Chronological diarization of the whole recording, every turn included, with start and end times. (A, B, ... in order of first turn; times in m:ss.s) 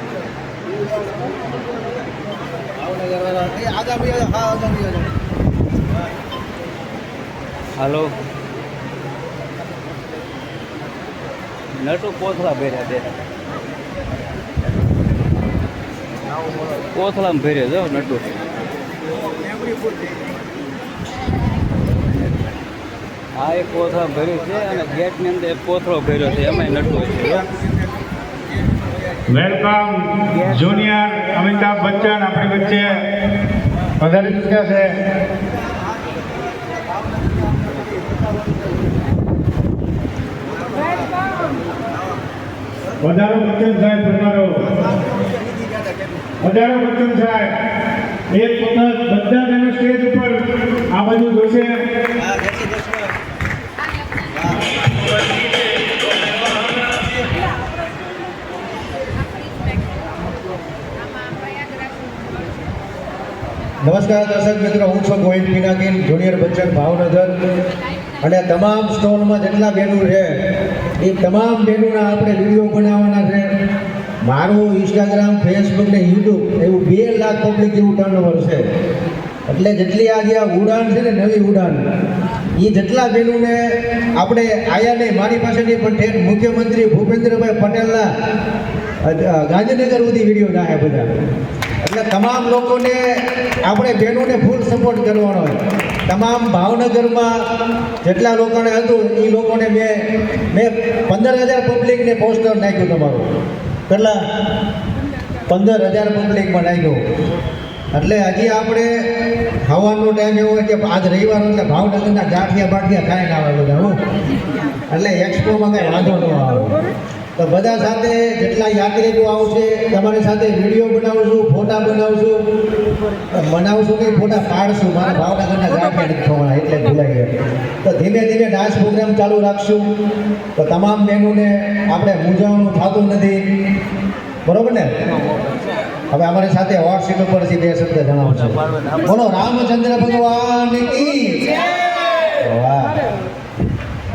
0:00.9-0:01.6 A
0:02.7-0:05.1 A
0:07.8-0:08.1 B
0:11.8-0:13.1 B
0:16.9-0:18.2 B
0:23.4-0:27.4 B
0:29.3-0:33.0 C
0:30.4-0:30.9 B
0:34.0-0:34.9 C
0:43.0-0:44.6 C
0:44.9-0:45.4 A
0:46.4-0:47.5 C
0:48.3-0:50.4 C
0:50.9-0:51.8 C
0:52.2-0:53.1 A
0:54.3-0:54.7 A
1:03.8-1:07.3 A
1:08.2-1:10.3 A
1:11.0-1:13.5 A
1:14.2-1:18.6 A
1:19.5-1:21.8 A
1:22.6-1:23.6 A
1:24.2-1:28.1 A
1:29.0-1:31.1 A
1:31.8-1:33.0 A
1:33.6-1:35.5 A
1:36.1-1:37.3 A
1:38.0-1:40.0 A
1:40.5-1:43.2 A
1:43.9-1:44.2 A
1:45.5-1:47.0 A
1:47.9-1:48.9 A
1:49.6-1:54.0 A
1:54.9-1:56.8 A
1:57.4-2:02.4 A
2:03.3-2:07.3 A
2:07.8-2:09.8 A
2:10.6-2:13.4 A
2:14.4-2:14.9 A
2:15.3-2:15.6 B
2:16.1-2:21.6 A
2:18.3-2:19.3 B
2:22.3-2:23.0 A